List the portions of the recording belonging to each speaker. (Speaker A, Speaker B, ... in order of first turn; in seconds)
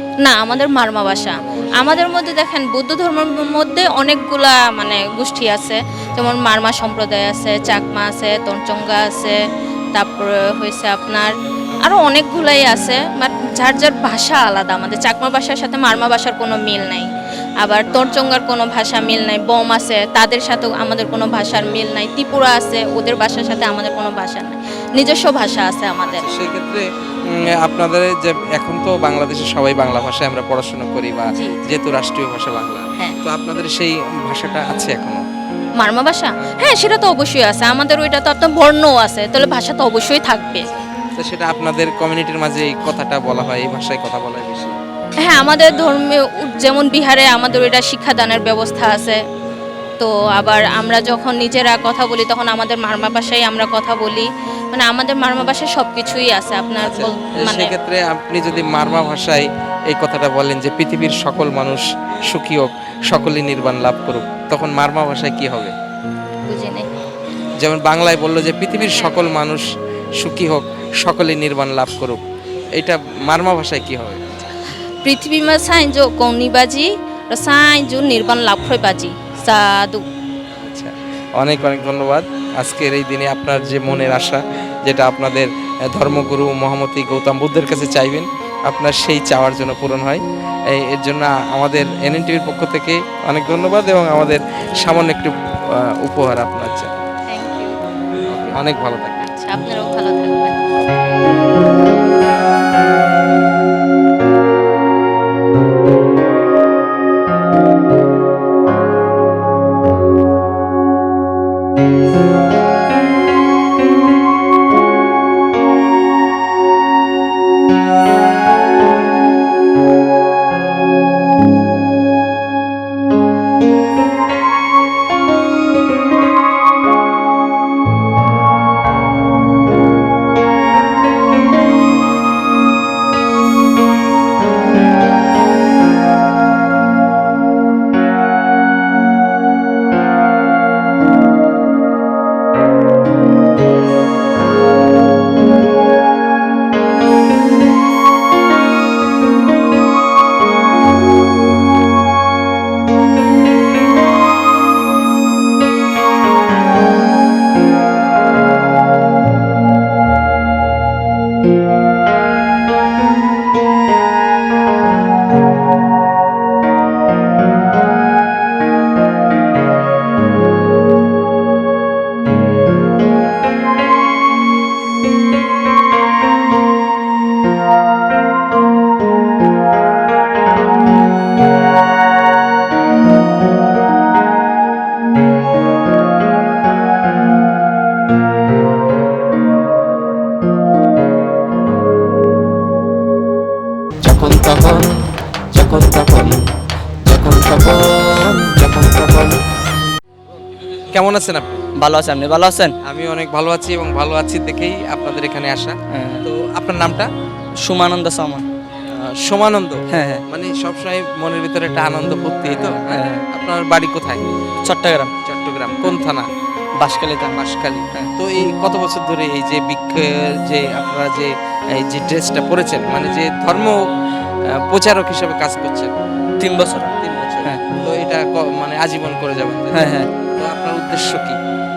Speaker A: 0.2-9.4, 9.9-17.1, 17.6-26.3, 31.3-31.8, 35.8-40.7, 45.2-49.2, 50.0-57.7, 66.5-66.9, 68.8-69.2, 75.0-80.0, 97.3-97.8, 99.2-100.6
Speaker B: 1.4-2.0, 26.1-35.2, 41.2-44.7, 56.8-65.7, 67.6-69.7, 70.2-72.2, 72.8-74.2, 80.6-96.9, 98.3-99.2, 200.9-201.6, 202.8-207.1, 208.9-214.4, 215.2-216.3, 217.3-223.8, 224.5-225.9, 227.0-231.4
Speaker C: 201.8-202.7, 205.9-206.2, 207.6-208.4, 209.9-210.2, 212.5-213.2, 214.6-215.1, 216.8-217.4, 226.4-226.9, 229.7-230.1